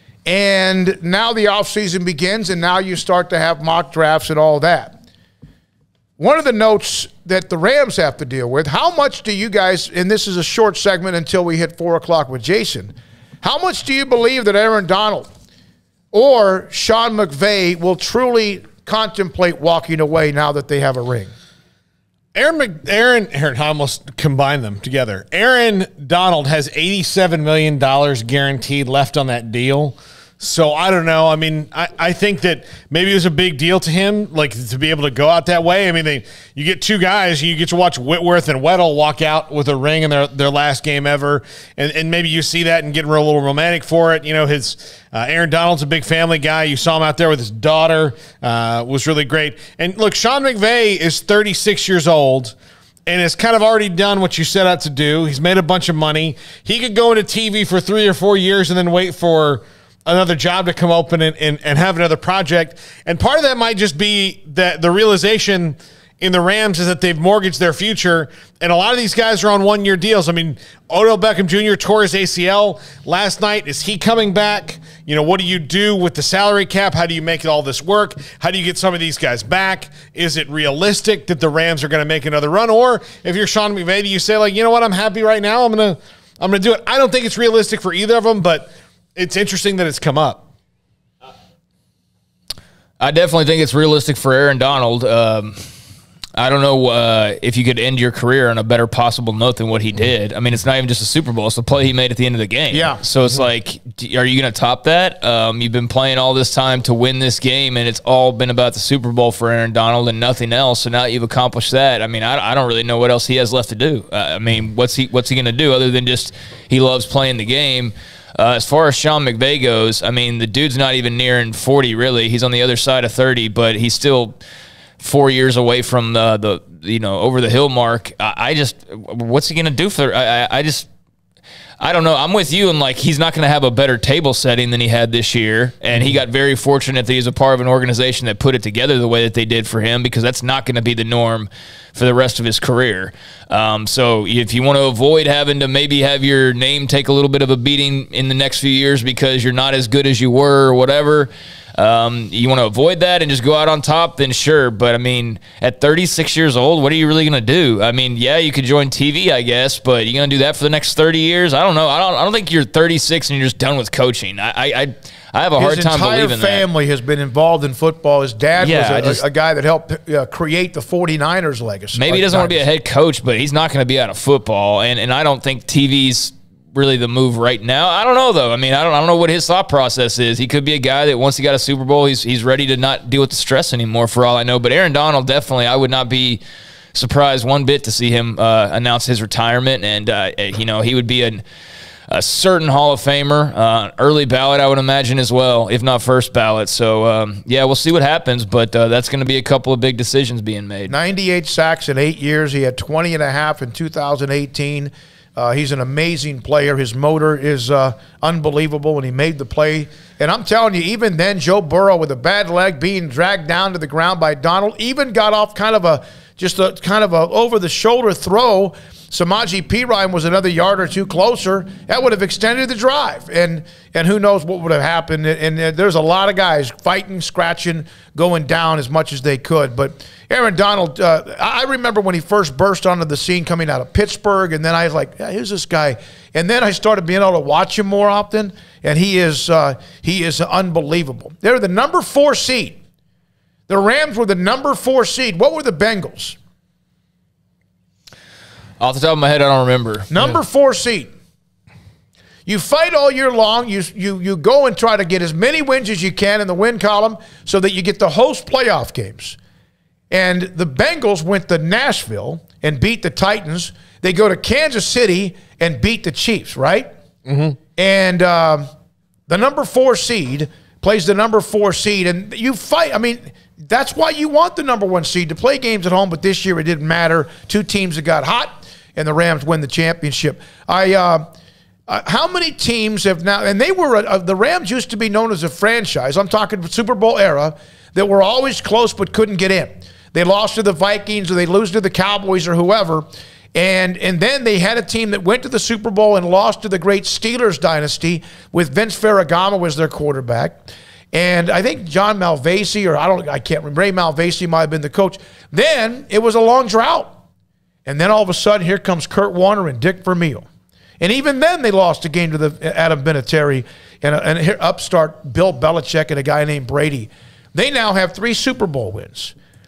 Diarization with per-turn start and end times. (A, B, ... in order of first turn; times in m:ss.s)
0:00.2-0:05.0 A
0:06.2-0:15.3 A
0:16.1-0:21.3 A
0:22.3-0:52.5 B
0:53.0-1:30.4 B
1:33.0-1:35.6 C
1:36.4-2:04.4 C
1:42.7-1:43.0 A
2:05.0-2:10.9 C
2:11.8-2:46.6 C
2:45.6-2:52.7 A
2:48.6-2:49.2 C
2:51.9-3:06.4 C
3:06.9-3:11.4 C
3:12.1-3:20.9 C
3:20.9-4:02.8 A
4:03.7-4:06.4 A
4:08.8-4:10.1 C
4:10.1-4:11.1 A
4:12.4-4:19.4 A
4:20.1-4:26.9 A
4:27.2-4:27.6 B
4:27.8-4:28.7 A
4:29.3-4:41.2 A
4:41.9-5:07.2 A
5:07.8-5:10.5 A
5:11.0-5:19.3 A